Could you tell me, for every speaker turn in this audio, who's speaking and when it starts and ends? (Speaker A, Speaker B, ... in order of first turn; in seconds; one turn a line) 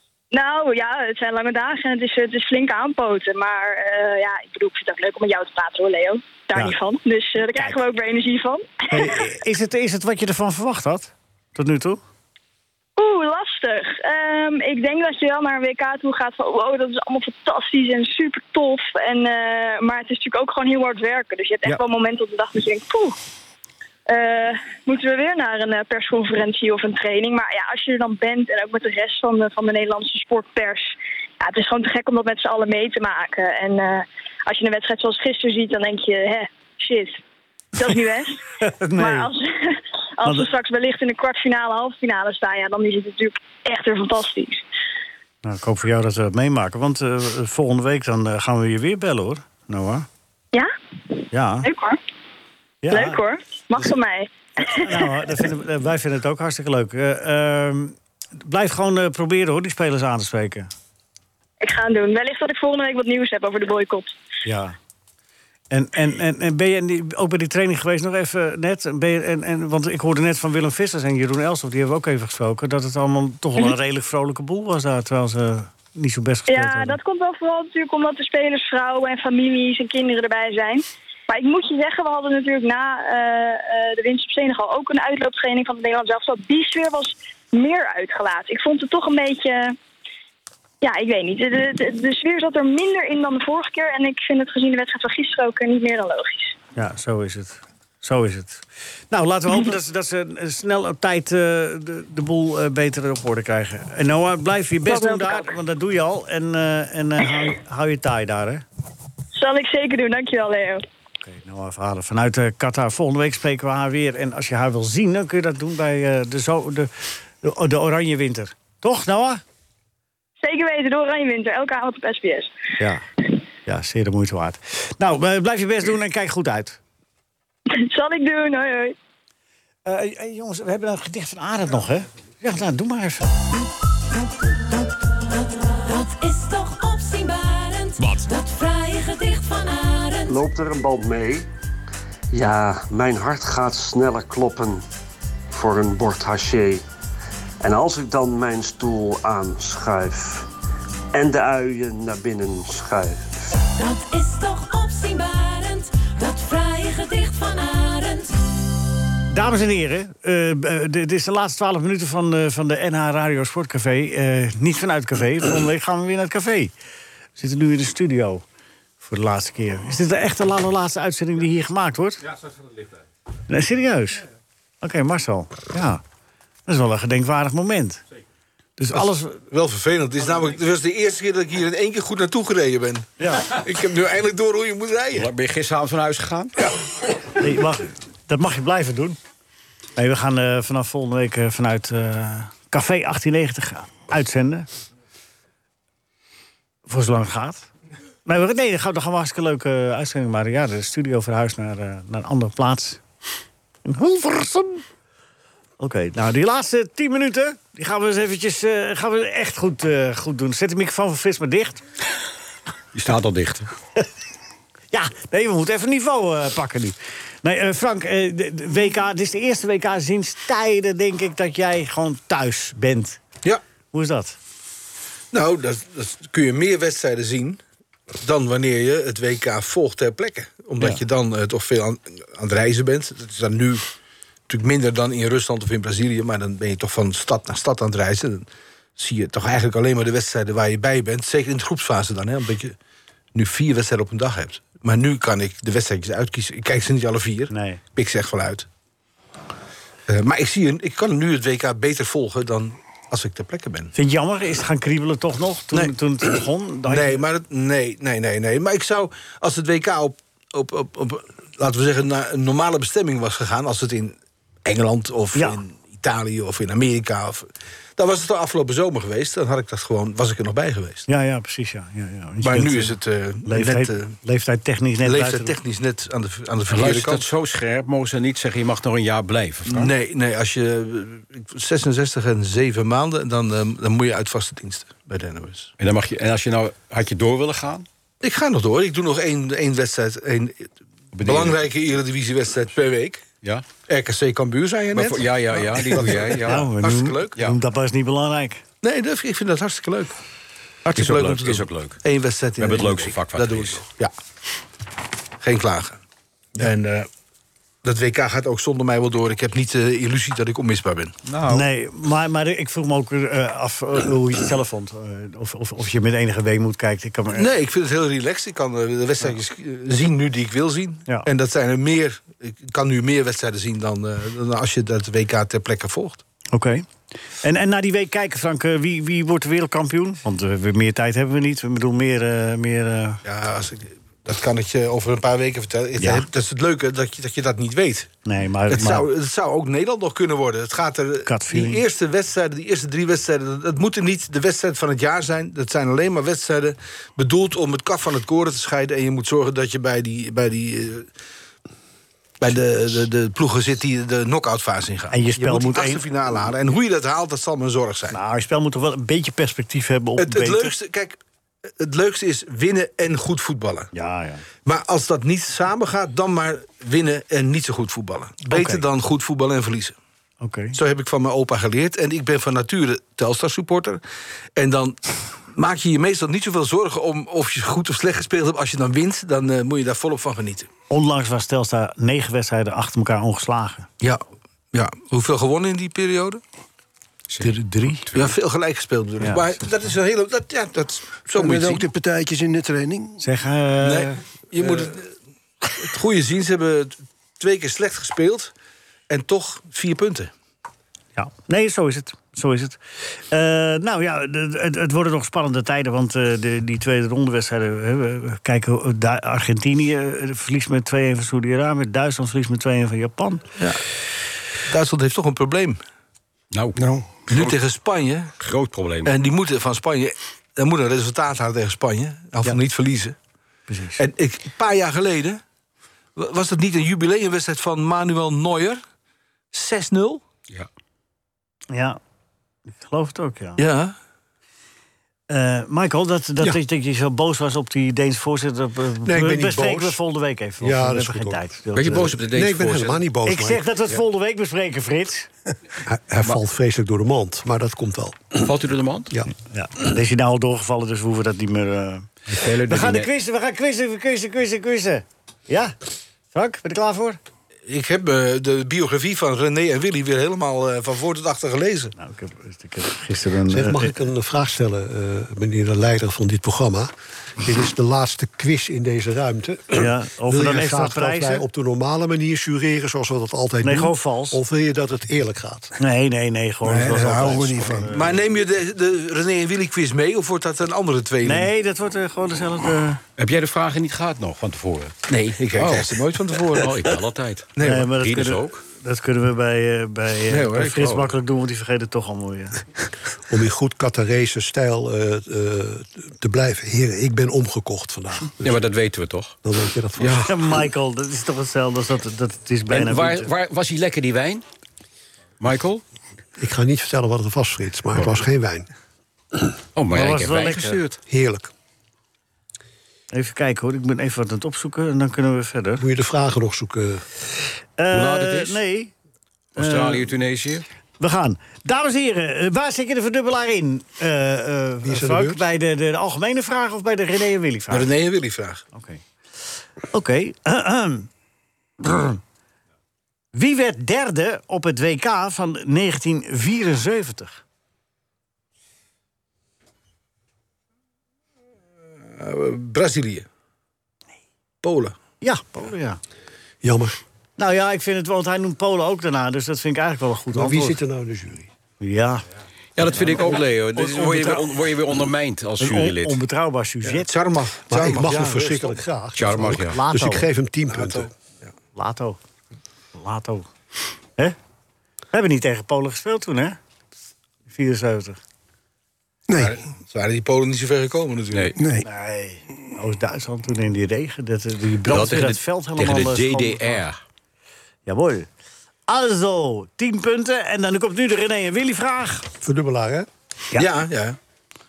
Speaker A: 0.3-9.3
Speaker B: 8.9-12.0
Speaker A: 13.0-23.2
Speaker A: 24.1-37.2
Speaker A: 37.8-38.4
Speaker B: 38.6-39.3
Speaker A: 39.0-44.6
Speaker B: 45.4-50.1
Speaker B: 51.3-51.7
Speaker A: 51.6-52.0
Speaker B: 52.8-53.2
Speaker A: 52.9-55.4
Speaker B: 54.7-60.7
Speaker A: 61.6-64.1
Speaker B: 64.5-64.8
Speaker B: 65.7-77.0
Speaker A: 76.5-89.8
Speaker A: 90.8-96.6
Speaker B: 96.8-108.6
Speaker A: 104.8-105.6
Speaker A: 109.3-110.8
Speaker B: 111.2-116.9
Speaker B: 117.4-119.4
Speaker A: 120.4-122.5
Speaker B: 122.8-123.0
Speaker B: 123.7-126.8
Speaker A: 127.7-128.9
Speaker B: 129.8-133.3
Speaker C: 135.4-140.4
Speaker D: 140.3-141.5
Speaker D: 142.3-144.9
Speaker D: 145.5-146.8
Speaker D: 147.6-150.5
Speaker D: 151.1-153.4
Speaker C: 153.8-158.3
Speaker B: 159.3-166.7
Speaker B: 167.4-168.4
Speaker B: 169.0-172.2
Speaker B: 173.5-174.2
Speaker B: 174.8-176.0
Speaker B: 176.7-178.0
Speaker B: 178.8-179.4
Speaker E: 178.9-185.3
Speaker B: 183.2-183.5
Speaker F: 185.2-186.6
Speaker B: 187.4-189.2
Speaker B: 190.0-194.7
Speaker B: 196.9-197.7
Speaker B: 198.3-203.0
Speaker B: 203.8-204.8
Speaker B: 205.8-211.8
Speaker F: 212.9-213.7
Speaker B: 214.9-223.2
Speaker B: 223.9-224.4
Speaker E: 225.3-227.6
Speaker E: 228.2-233.8
Speaker E: 234.5-242.8
Speaker E: 243.3-248.7
Speaker B: 247.5-247.8
Speaker E: 250.1-253.9
Speaker B: 253.9-257.2
Speaker E: 256.9-271.1
Speaker B: 271.1-275.5
Speaker E: 272.4-274.2
Speaker E: 275.0-277.3
Speaker F: 276.7-279.9
Speaker E: 279.7-285.7
Speaker F: 285.8-287.9
Speaker E: 288.2-290.7
Speaker F: 291.1-291.6
Speaker E: 291.2-293.3
Speaker E: 293.9-297.4
Speaker F: 294.9-296.7
Speaker B: 296.4-298.6
Speaker E: 298.8-300.1
Speaker F: 300.9-302.0
Speaker E: 300.9-304.1
Speaker F: 302.6-303.8
Speaker E: 305.4-306.0
Speaker E: 306.6-307.1
Speaker E: 307.8-311.1
Speaker F: 311.3-311.6
Speaker B: 311.5-317.5
Speaker E: 317.3-326.2
Speaker B: 326.5-326.9
Speaker B: 327.4-333.2
Speaker E: 333.2-338.1
Speaker B: 336.0-336.3
Speaker B: 338.2-339.1
Speaker E: 338.7-351.1
Speaker B: 341.3-341.8
Speaker E: 352.4-358.2
Speaker B: 355.1-356.0
Speaker B: 358.1-360.8
Speaker E: 360.2-361.2
Speaker E: 361.8-363.9
Speaker B: 363.9-364.4
Speaker E: 364.6-369.9
Speaker B: 368.5-368.8
Speaker B: 370.4-370.8
Speaker E: 370.8-374.0
Speaker E: 374.6-380.7
Speaker B: 380.9-383.9
Speaker E: 384.7-386.4
Speaker F: 387.3-388.3
Speaker E: 387.4-391.9
Speaker B: 389.2-389.6
Speaker G: 391.3-393.2
Speaker B: 393.2-394.2
Speaker E: 393.8-395.1
Speaker E: 395.7-398.5
Speaker E: 399.1-400.3
Speaker B: 401.2-413.4
Speaker E: 414.7-415.8
Speaker F: 416.5-417.6
Speaker G: 416.8-417.1
Speaker E: 417.3-418.4
Speaker F: 418.4-419.1
Speaker E: 419.1-423.1
Speaker B: 423.7-424.0
Speaker E: 424.0-425.4
Speaker E: 426.2-428.8
Speaker E: 429.5-430.2
Speaker B: 431.7-432.0
Speaker B: 432.8-433.6
Speaker E: 433.6-433.9
Speaker B: 435.3-442.1
Speaker H: 439.1-440.0
Speaker H: 440.6-443.7
Speaker F: 441.7-443.0
Speaker B: 443.3-445.3
Speaker H: 445.8-448.5
Speaker F: 448.4-449.1
Speaker B: 449.4-455.7
Speaker F: 452.3-453.1
Speaker B: 456.3-457.2
Speaker E: 457.7-461.9
Speaker B: 462.0-463.9
Speaker H: 463.5-475.8
Speaker B: 469.7-471.4
Speaker B: 473.6-474.4
Speaker B: 475.8-478.2
Speaker G: 476.6-477.9
Speaker E: 477.9-481.5
Speaker B: 481.2-483.0
Speaker F: 483.2-484.9
Speaker E: 485.1-486.8
Speaker F: 485.6-488.6
Speaker E: 487.6-487.9
Speaker B: 487.6-492.6
Speaker E: 490.3-491.1
Speaker H: 493.3-498.6
Speaker F: 498.4-499.4
Speaker H: 499.4-500.3
Speaker F: 500.0-500.3
Speaker B: 500.3-503.3
Speaker F: 502.7-504.4
Speaker F: 505.4-505.8
Speaker H: 506.4-508.7
Speaker F: 509.8-511.0
Speaker B: 509.9-510.8
Speaker H: 511.1-511.5
Speaker B: 513.1-515.9
Speaker H: 515.8-517.0
Speaker B: 517.8-518.9
Speaker F: 517.9-518.6
Speaker F: 519.6-520.6
Speaker B: 519.6-520.1
Speaker B: 521.0-527.9
Speaker H: 524.8-525.4
Speaker E: 527.7-528.6
Speaker B: 528.7-529.0
Speaker B: 529.9-531.1
Speaker B: 531.8-532.2
Speaker B: 533.3-537.4
Speaker E: 542.1-543.3
Speaker E: 544.6-545.0
Speaker B: 545.2-546.0
Speaker H: 546.6-547.0
Speaker B: 547.4-550.8
Speaker H: 550.3-551.5
Speaker B: 551.8-552.2
Speaker F: 552.8-556.2
Speaker E: 553.8-554.4
Speaker B: 555.6-557.1
Speaker E: 556.9-558.8
Speaker H: 557.7-561.1
Speaker F: 559.1-559.8
Speaker B: 559.7-560.3
Speaker E: 560.7-561.5
Speaker B: 561.8-562.2
Speaker B: 562.9-563.5
Speaker B: 565.1-566.6
Speaker B: 567.5-568.2
Speaker G: 569.3-569.6
Speaker E: 569.4-571.6
Speaker G: 571.6-571.9
Speaker B: 571.8-576.8
Speaker F: 574.9-577.0
Speaker B: 577.9-578.3
Speaker B: 578.9-582.3
Speaker H: 582.4-583.1
Speaker E: 583.6-584.2